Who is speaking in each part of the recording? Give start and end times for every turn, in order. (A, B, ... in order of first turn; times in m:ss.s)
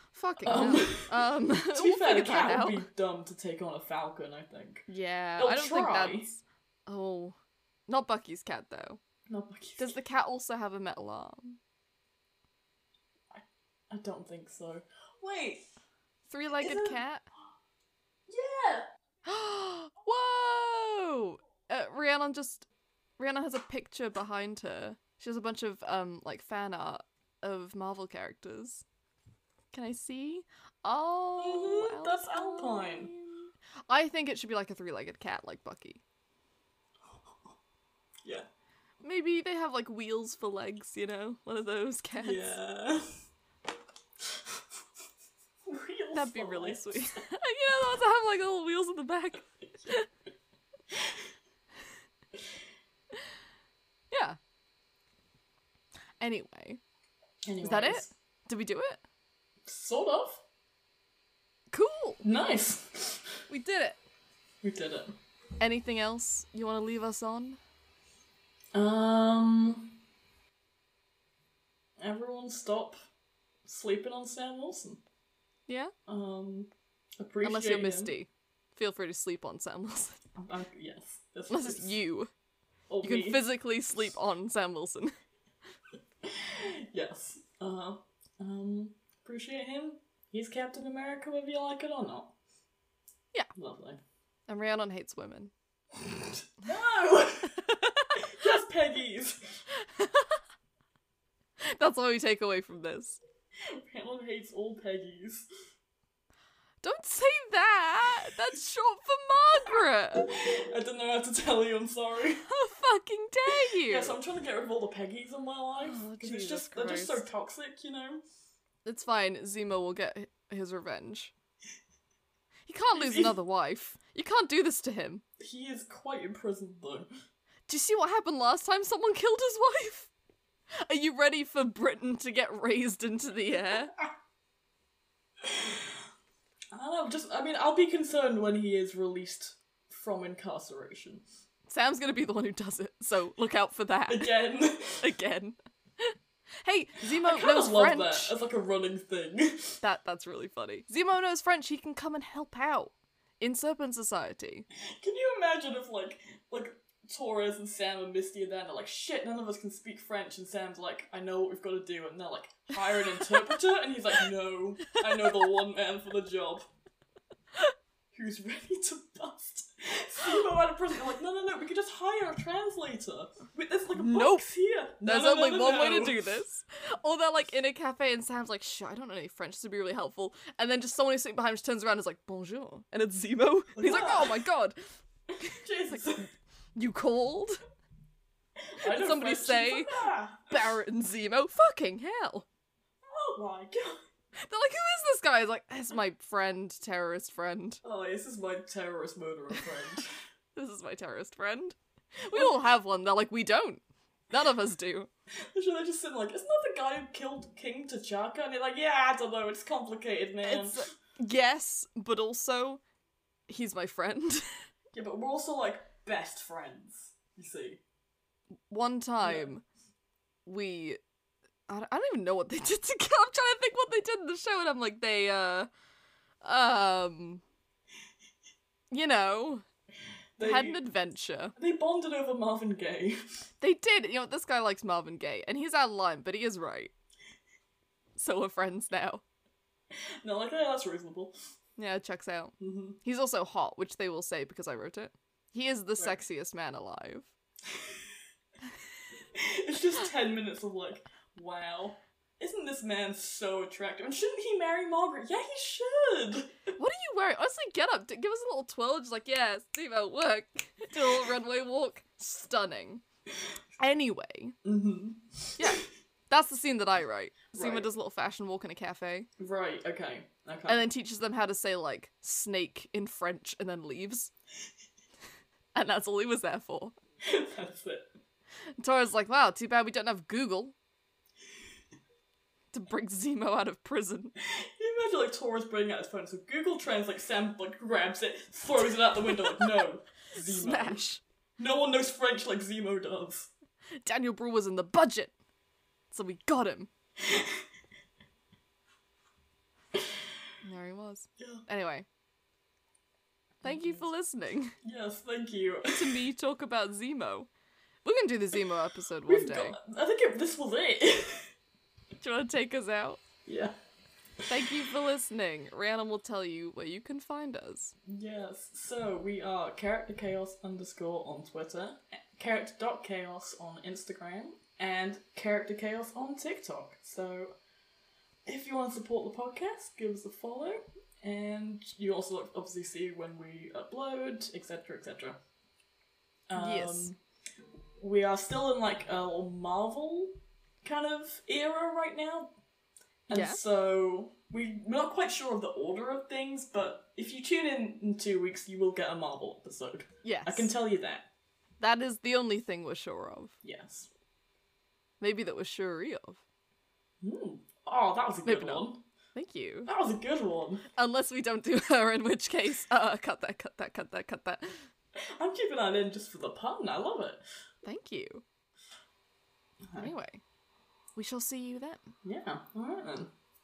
0:00.1-0:02.8 A
0:00.4-0:06.3 B
0:04.9-0:07.4 A
0:07.9-0:09.0 A
0:09.3-0:10.0 B
0:09.8-0:11.6 A
0:13.3-0:15.7 B
0:16.3-0:17.2 A
0:16.6-0:17.0 B
0:18.3-0:18.9 B
0:19.2-0:22.6 A
0:23.2-0:28.8 A
0:29.7-0:36.0 A
0:31.4-0:33.1 B
0:37.1-0:37.5 B
0:39.0-0:42.6 A
0:42.2-0:43.2 B
0:44.3-0:44.6 B
0:45.6-0:47.0 B
0:46.1-0:50.1 A
0:54.1-0:54.4 A
0:56.2-0:56.8 A
0:57.5-0:58.1 B
0:57.6-0:59.0 A
0:59.7-1:00.4 B
1:01.7-1:02.2 A
1:02.2-1:03.4 B
1:03.5-1:04.0 A
1:04.6-1:05.2 B
1:05.6-1:07.6 A
1:08.7-1:09.9 B
1:12.0-1:13.0 B
1:13.7-1:15.0 B
1:16.1-1:18.1 B
1:17.4-1:20.2 A
1:20.4-1:22.0 B
1:21.5-1:22.3 A
1:22.9-1:23.4 B
1:23.0-1:25.1 A
1:26.2-1:32.3 B
1:33.6-1:34.0 B
1:34.5-1:35.5 A
1:36.0-1:39.6 B
1:37.6-1:38.3 A
1:39.8-1:40.4 A
1:41.6-1:43.2 A
1:43.6-1:45.5 B
1:46.8-1:50.3 A
1:50.2-1:52.4 B
1:52.4-1:54.2 A
1:53.5-1:58.2 B
1:55.8-1:57.3 A
1:58.8-2:01.3 A
2:02.7-2:05.2 A
2:03.0-2:03.3 B
2:05.4-2:07.1 B
2:07.7-2:10.1 A
2:10.8-2:13.9 A
2:15.4-2:15.9 B
2:16.7-2:21.2 B
2:21.7-2:24.3 A
2:24.1-2:25.1 B
2:25.0-2:28.3 A
2:27.1-2:29.8 B
2:29.8-2:34.7 A
2:34.8-2:46.7 B
2:45.0-2:45.4 A
2:48.1-2:56.2 B
2:53.9-2:54.5 A
2:55.0-3:04.8 A
3:03.8-3:04.4 B
3:05.4-3:06.3 B
3:05.4-3:07.6 A
3:08.6-3:10.6 B
3:08.8-3:12.5 A
3:13.1-3:14.0 B
3:14.4-3:17.8 A
3:17.8-3:20.2 B
3:20.6-3:25.1 A
3:25.5-3:30.9 B
3:30.4-3:32.8 A
3:33.5-3:34.5 A
3:34.9-3:37.8 B
3:38.7-3:39.6 A
3:39.2-3:39.5 B
3:40.5-3:41.0 A
3:41.7-3:45.7 A
3:46.4-3:47.4 A
3:48.9-3:49.6 A
3:50.4-3:50.8 B
3:50.4-3:51.5 A
3:51.6-3:53.2 B
3:53.6-3:56.9 A
3:58.2-3:59.2 A
3:59.9-4:01.4 B
4:01.8-4:07.3 A
4:02.6-4:03.0 B
4:07.7-4:08.0 B
4:09.3-4:16.8 B
4:16.8-4:23.0 A
4:23.8-4:24.6 A
4:24.6-4:25.8 B
4:25.6-4:29.3 A
4:27.6-4:27.9 B
4:29.4-4:30.8 B
4:30.7-4:34.3 A
4:35.8-4:37.0 A
4:37.2-4:38.1 B
4:38.8-4:40.8 A
4:42.7-4:44.3 A
4:44.4-4:51.0 B
4:50.3-4:51.2 A
4:51.6-4:53.5 B
4:54.0-4:55.3 A
4:56.1-4:56.9 A
4:57.2-4:57.6 B
5:00.6-5:02.1 A
5:01.4-5:01.6 B
5:03.6-5:04.8 A
5:03.7-5:04.0 B
5:04.8-5:06.2 B
5:06.0-5:07.5 A
5:08.0-5:09.8 A
5:09.3-5:11.5 B
5:12.2-5:13.2 A
5:13.4-5:13.8 B
5:14.5-5:18.0 A
5:18.1-5:27.6 B
5:28.5-5:35.4 B
5:36.5-5:37.2 B
5:36.6-5:37.1 A
5:38.0-5:42.6 B
5:43.3-5:51.3 B
5:43.3-5:43.6 A
5:50.2-5:50.7 A
5:51.8-5:53.5 A
5:53.6-5:54.1 B
5:55.2-5:56.4 A
5:57.2-5:59.0 B
5:58.4-5:59.9 A
5:59.9-6:00.8 B
6:01.0-6:04.8 A
6:05.2-6:07.4 B
6:07.8-6:08.4 A
6:10.0-6:10.4 A
6:11.2-6:12.1 A
6:12.2-6:13.3 B